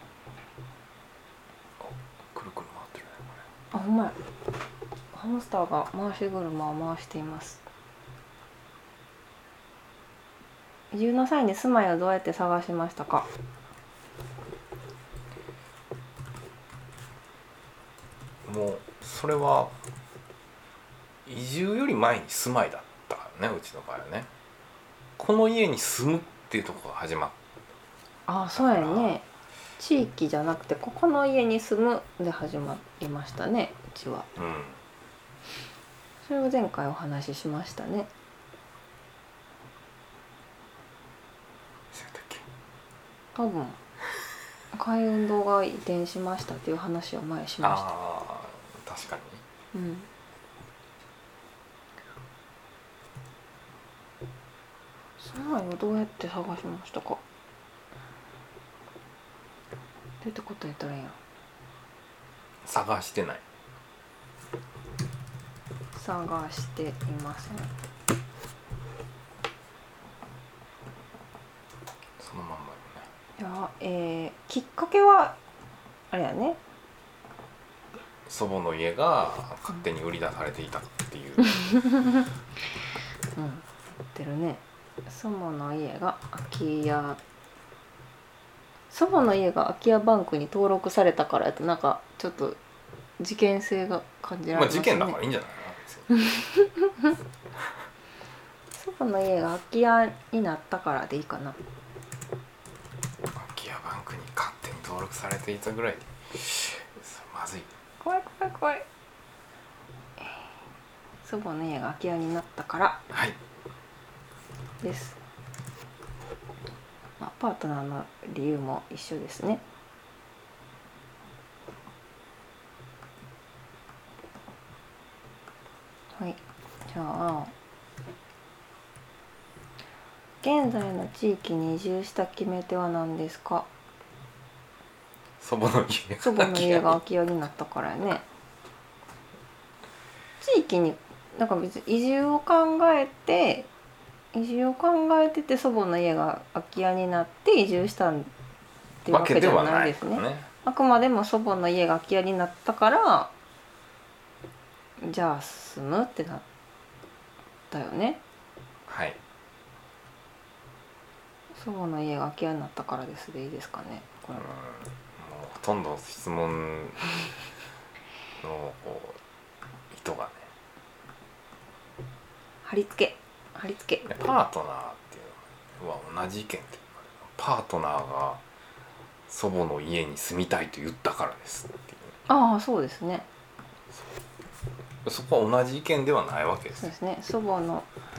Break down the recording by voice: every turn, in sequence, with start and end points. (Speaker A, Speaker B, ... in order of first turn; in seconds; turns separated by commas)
Speaker A: 1.8-3.4, Speaker B: 3.7-4.2, Speaker B: 5.1-7.6, Speaker B: 10.9-13.3, Speaker A: 18.4-19.7, Speaker A: 21.2-24.3, Speaker A: 25.2-27.4, Speaker B: 28.3-29.2, Speaker A: 28.5-29.1, Speaker B: 29.8-34.3, Speaker A: 34.4-34.8, Speaker B: 36.2-38.1, Speaker A: 41.9-42.5, Speaker B: 43.3-43.8, Speaker B: 44.7-47.9, Speaker A: 47.6-49.4, Speaker B: 49.7-50.1, Speaker B: 55.2-57.2, Speaker B: 60.2-61.2, Speaker A: 62.6-63.4, Speaker B: 65.9-67.7, Speaker A: 72.2-73.0, Speaker B: 73.4-75.4, Speaker B: 76.1-76.6, Speaker A: 78.2-81.6, Speaker B: 81.5-82.2, Speaker B: 83.3-87.2, Speaker B: 88.9-92.6, Speaker B: 93.2-95.2, Speaker A: 94.5-96.1, Speaker B: 96.1-97.1, Speaker B: 98.7-101.6, Speaker A: 103.3-107.7, Speaker B: 108.0-108.8, Speaker B: 111.2-113.0, Speaker A: 113.1-113.4, Speaker B: 114.8-115.2, Speaker B: 117.2-119.6, Speaker B: 126.2-127.5, Speaker B: 130.4-133.7, Speaker A: 135.4-137.0, Speaker B: 136.2-138.2, Speaker B: 140.4-143.7, Speaker B: 144.3-148.3, Speaker B: 149.0-153.3, Speaker A: 149.1-150.5, Speaker B: 155.0-156.4, Speaker B: 157.7-158.2, Speaker A: 158.9-159.2, Speaker B: 161.5-164.5, Speaker A: 164.3-167.0, Speaker A: 168.4-169.2, Speaker A: 169.9-170.4, Speaker B: 172.6-174.1, Speaker A: 174.0-178.4, Speaker A: 179.3-182.1, Speaker B: 182.3-183.3, Speaker A: 185.0-186.8, Speaker B: 186.8-187.9